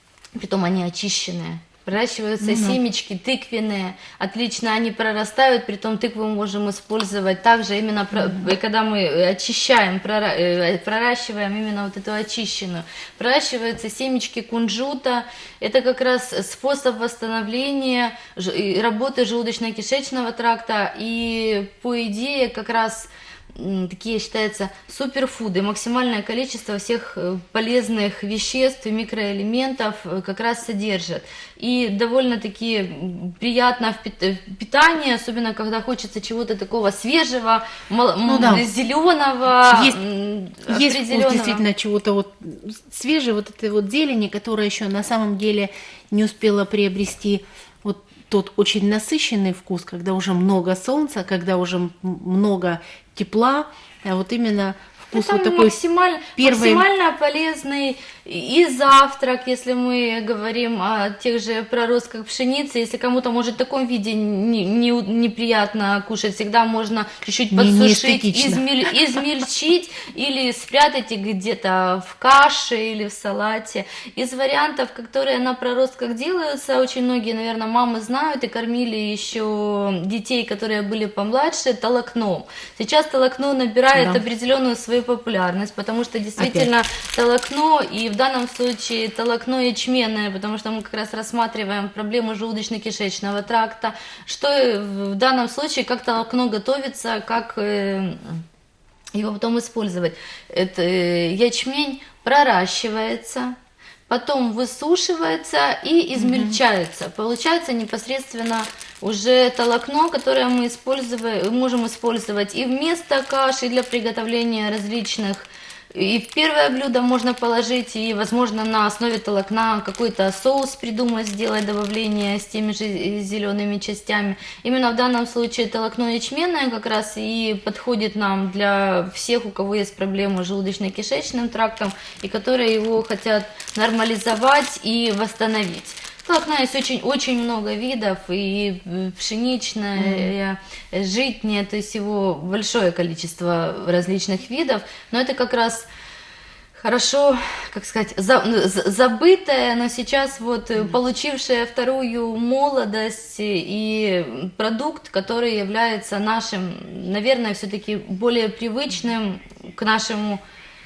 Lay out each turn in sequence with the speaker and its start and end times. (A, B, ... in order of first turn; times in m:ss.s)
0:00.4-0:41.6 A
0:02.4-0:02.8 B
0:08.2-0:08.5 B
0:38.3-0:38.7 B
0:39.7-0:40.0 B
0:40.7-0:55.8 B
0:55.1-1:38.4 A
0:56.4-0:56.9 B
1:07.5-1:09.2 B
1:23.9-1:24.2 B
1:26.4-1:26.7 B
1:39.1-1:43.6 A
1:44.1-2:25.9 A
1:46.2-1:46.6 B
2:20.0-2:20.3 B
2:26.8-2:40.4 A